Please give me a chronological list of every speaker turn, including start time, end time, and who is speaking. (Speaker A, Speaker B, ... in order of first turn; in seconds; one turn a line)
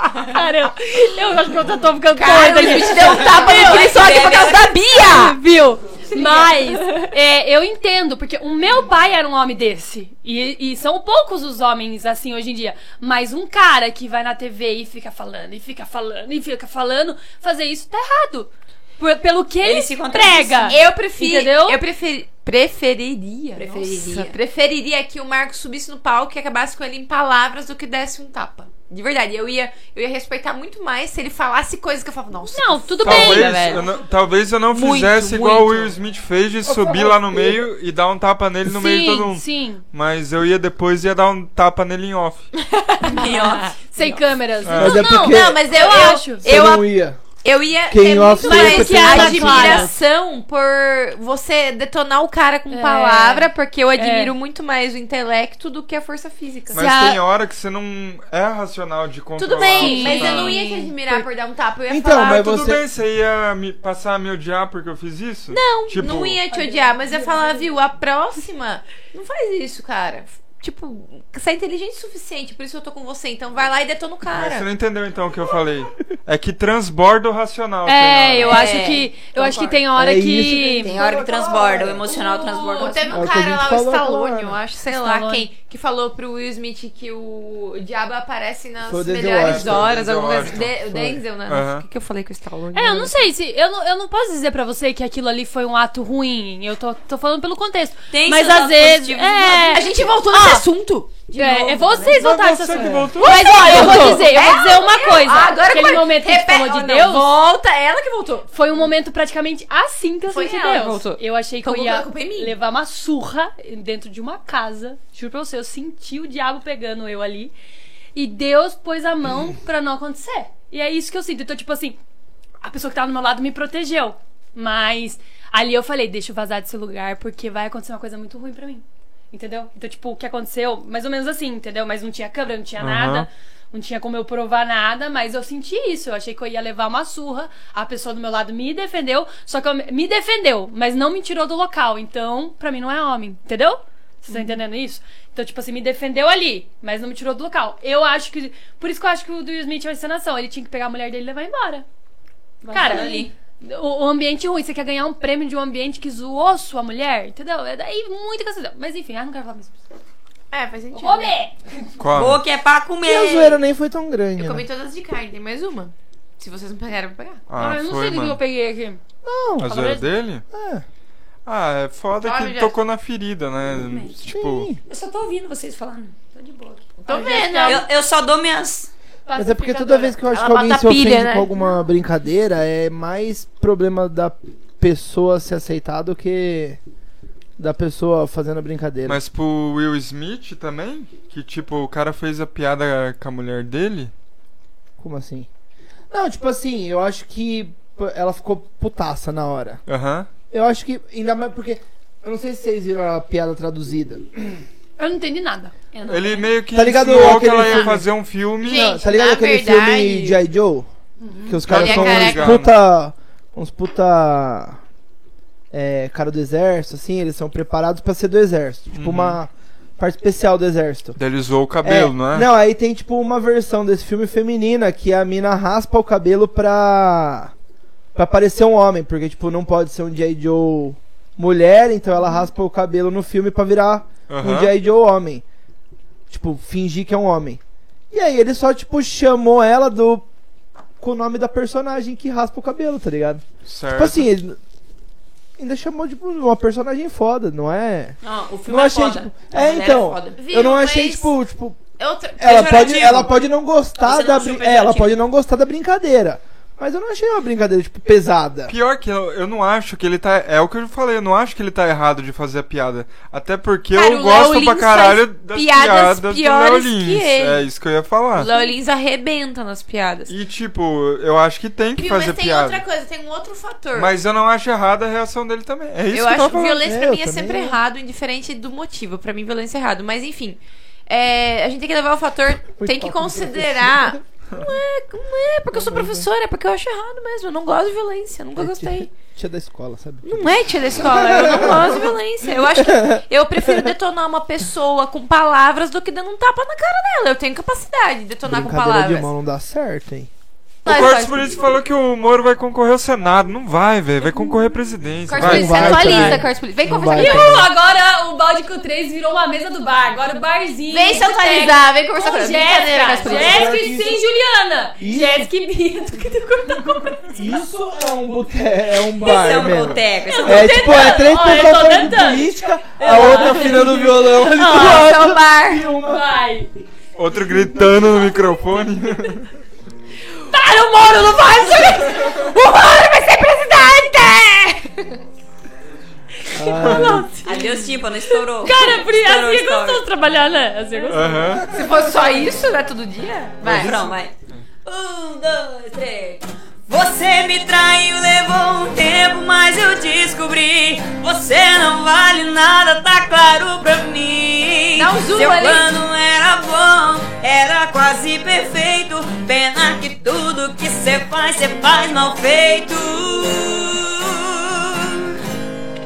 Speaker A: 0.3-4.1
Speaker B: 2.1-5.4
Speaker C: 3.1-4.8
Speaker A: 4.9-21.8
Speaker B: 6.1-7.0
Speaker C: 19.6-20.9
Speaker B: 20.7-34.0
Speaker C: 23.6-24.4
Speaker A: 32.5-33.9
Speaker D: 33.0-42.5
Speaker B: 34.7-35.9
Speaker E: 36.6-37.6
Speaker A: 38.6-39.8
Speaker B: 42.6-44.2
Speaker A: 43.1-46.5
Speaker C: 43.1-43.7
Speaker D: 44.6-45.1
Speaker E: 44.8-47.2
Speaker B: 44.9-46.9
Speaker B: 47.4-56.8
Speaker E: 47.9-49.9
Speaker A: 48.4-49.9
Speaker A: 52.7-54.3
Speaker D: 56.7-60.6
Speaker A: 56.7-57.2
Speaker B: 59.4-62.5
Speaker A: 59.7-60.9
Speaker E: 61.9-62.8
Speaker D: 62.2-66.4
Speaker B: 65.5-74.7
Speaker A: 66.5-67.7
Speaker D: 74.3-78.7
Speaker A: 77.8-80.9
Speaker B: 78.4-79.8
Speaker E: 79.9-82.3
Speaker C: 80.8-83.2
Speaker B: 82.1-93.1
Speaker E: 83.1-84.6
Speaker A: 84.9-85.5
Speaker E: 88.8-91.2
Speaker D: 89.4-90.8
Speaker D: 91.5-91.8
Speaker A: 92.7-100.7
Speaker C: 98.1-99.8
Speaker B: 99.7-102.1
Speaker A: 101.3-107.3
Speaker D: 102.0-104.0
Speaker B: 103.2-108.5
Speaker A: 108.5-117.5
Speaker B: 110.3-112.5
Speaker A: 118.1-122.0
Speaker A: 122.6-151.8
Speaker D: 132.8-133.3
Speaker A: 152.6-159.8
Speaker B: 152.7-153.3
Speaker B: 160.5-161.3
Speaker A: 160.9-161.9
Speaker D: 162.0-162.4
Speaker C: 162.1-163.6
Speaker E: 163.0-164.7
Speaker B: 164.4-167.4
Speaker D: 167.5-168.4
Speaker A: 167.6-169.0
Speaker E: 169.2-169.7
Speaker D: 169.6-170.4
Speaker A: 169.6-170.1
Speaker E: 170.5-170.8
Speaker D: 171.4-174.7
Speaker B: 172.2-172.7
Speaker E: 174.3-174.8
Speaker A: 174.9-177.8
Speaker B: 177.0-177.8
Speaker C: 177.6-178.9
Speaker A: 179.2-180.2
Speaker E: 179.3-186.8
Speaker B: 180.3-181.5
Speaker E: 187.6-189.2
Speaker D: 189.1-194.1
Speaker E: 195.0-195.5
Speaker E: 196.1-199.8
Speaker D: 199.9-200.3
Speaker E: 200.5-204.6
Speaker A: 205.0-206.5
Speaker D: 206.1-208.9
Speaker E: 206.7-208.0
Speaker B: 207.1-207.9
Speaker B: 208.6-210.4
Speaker E: 208.6-210.9
Speaker A: 211.2-211.6
Speaker E: 211.4-214.8
Speaker D: 211.7-212.7
Speaker B: 211.7-212.6
Speaker E: 215.7-221.2
Speaker D: 218.9-219.4
Speaker D: 221.2-222.5
Speaker E: 221.8-227.5
Speaker E: 228.1-235.4
Speaker D: 234.3-234.7
Speaker E: 236.3-237.6
Speaker E: 238.1-240.2
Speaker E: 241.0-244.6
Speaker D: 243.6-244.2
Speaker E: 245.6-251.9
Speaker B: 248.2-251.3
Speaker B: 252.0-252.9
Speaker E: 252.4-258.7
Speaker C: 252.4-253.3
Speaker C: 254.0-255.2
Speaker D: 258.7-268.5
Speaker B: 263.9-267.6
Speaker B: 268.3-270.3
Speaker D: 270.3-272.8
Speaker B: 272.0-274.1
Speaker D: 273.9-276.8
Speaker B: 276.1-289.1
Speaker E: 276.7-277.8
Speaker E: 282.8-284.2
Speaker E: 285.7-286.3
Speaker E: 288.6-292.1
Speaker B: 290.2-299.3
Speaker E: 292.8-293.9
Speaker E: 298.4-300.3
Speaker D: 300.8-306.3
Speaker B: 300.9-301.5
Speaker B: 305.3-307.7
Speaker E: 305.3-307.7
Speaker A: 306.1-306.4
Speaker A: 307.1-317.4
Speaker B: 310.9-313.8
Speaker E: 313.2-314.2
Speaker E: 315.0-315.5
Speaker E: 317.3-326.2
Speaker C: 319.2-320.9
Speaker A: 320.3-325.1
Speaker B: 324.6-325.9
Speaker A: 326.0-326.7
Speaker D: 327.1-329.5
Speaker A: 330.4-332.2
Speaker B: 331.1-335.2
Speaker A: 336.5-341.4
Speaker E: 336.5-337.3
Speaker D: 336.9-337.1
Speaker C: 337.4-340.0
Speaker D: 341.1-341.7
Speaker B: 341.7-344.0
Speaker D: 343.6-344.2
Speaker C: 343.6-365.3
Speaker B: 355.0-355.9